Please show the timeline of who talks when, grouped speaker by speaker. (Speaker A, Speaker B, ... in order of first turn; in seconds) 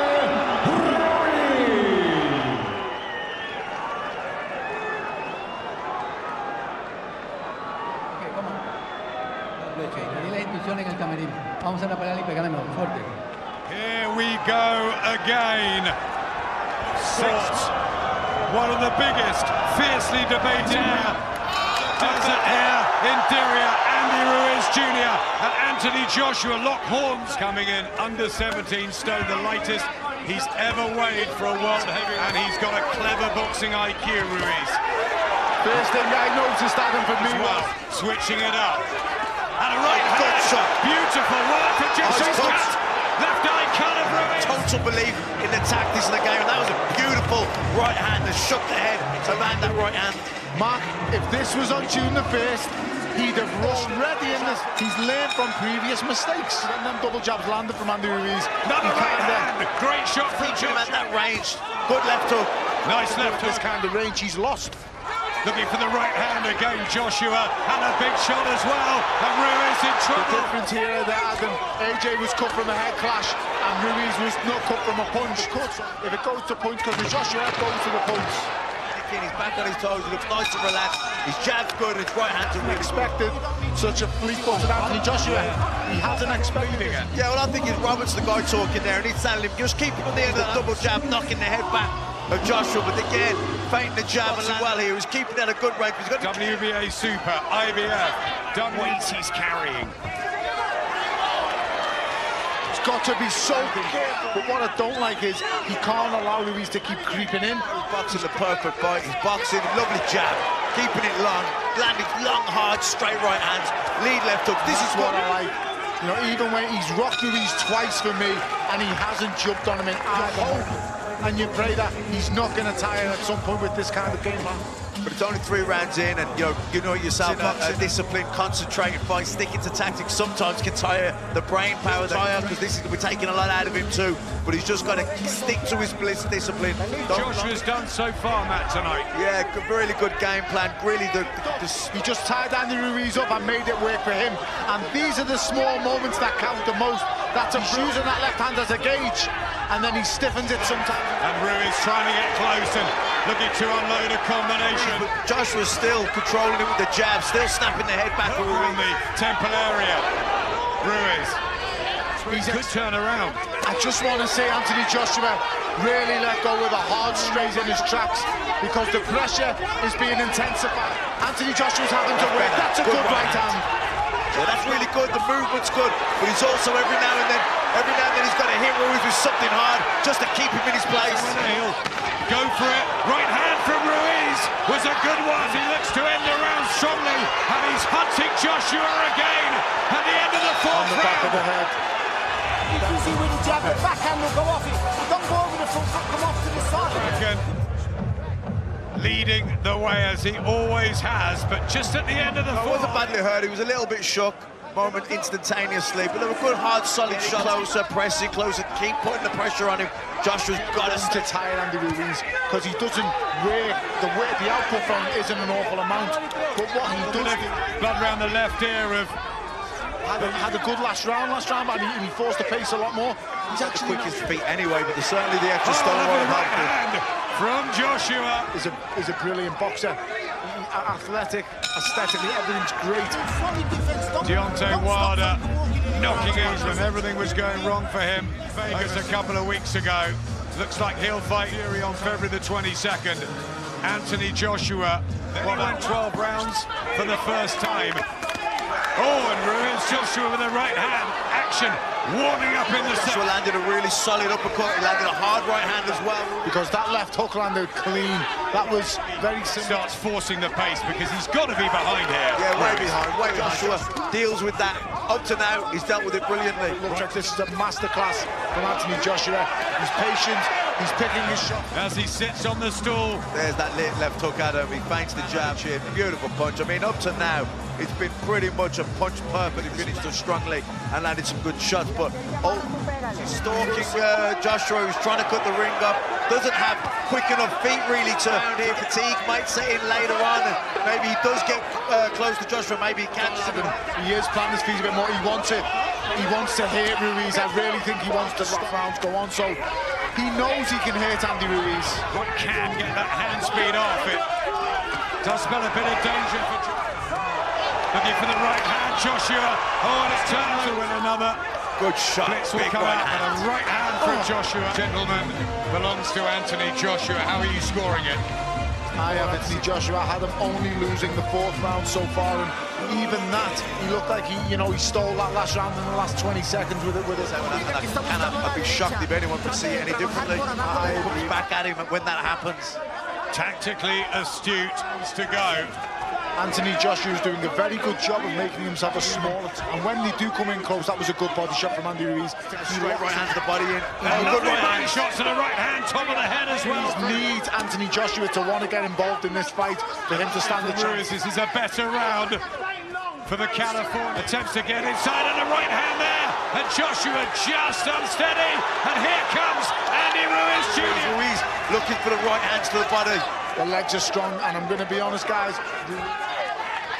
Speaker A: 0.6-2.5, 192.9-196.8, 233.6-234.2
Speaker B: 8.2-8.6, 9.6-13.2
Speaker C: 13.7-15.9, 16.9-17.7, 18.4-21.2, 22.0-34.8, 37.2-38.8, 39.6-44.7, 58.6-61.0, 62.8-63.7, 65.4-70.5, 86.5-87.0, 96.2-100.0, 127.2-127.9, 137.0-139.1, 147.6-147.9, 150.7-155.1, 158.2-160.1, 160.8-161.4, 162.2-163.4, 181.0-191.4, 196.8-197.4, 198.9-203.1, 207.1-207.5, 216.8-219.2, 220.2-220.5, 225.6-228.5, 234.2-243.3, 243.8-248.0, 248.9-253.3, 258.8-263.0, 266.9-267.1, 271.7-273.2, 302.1-304.2, 305.2-306.7, 307.9-311.4, 312.2-318.2, 333.3-335.7, 344.0-347.3, 350.1-352.4, 353.2-361.2
Speaker D: 22.0-22.4, 35.6-37.7, 49.2-49.8, 50.5-59.5, 63.0-64.8, 70.1-78.5, 82.4-87.1, 90.1-90.9, 102.7-108.4, 114.6-124.6, 131.9-132.5, 141.4-151.2, 162.3-162.7, 163.6-173.6, 190.7-191.8, 210.5-217.6, 220.0-224.2, 228.5-233.4, 236.0-236.6, 256.4-259.9, 263.2-263.9, 266.7-271.7, 283.5-284.0, 293.2-299.6, 300.1-302.0, 314.0-314.3, 318.9-327.8, 330.6-331.3, 336.4-343.4, 344.0-344.5, 346.6-351.1, 363.6-366.2
Speaker E: 39.8-40.8, 42.0-42.8, 44.3-50.3, 60.2-62.5, 78.9-83.2, 87.1-96.5, 103.9-104.3, 107.7-115.2, 125.0-137.7, 139.1-141.9, 154.6-158.8, 172.1-173.6, 174.3-181.5, 202.5-211.3, 223.5-226.8, 252.7-256.6, 262.4-266.8, 273.3-293.8, 311.8-313.5, 319.1-319.7, 327.2-332.8, 342.6-345.0, 360.6-363.2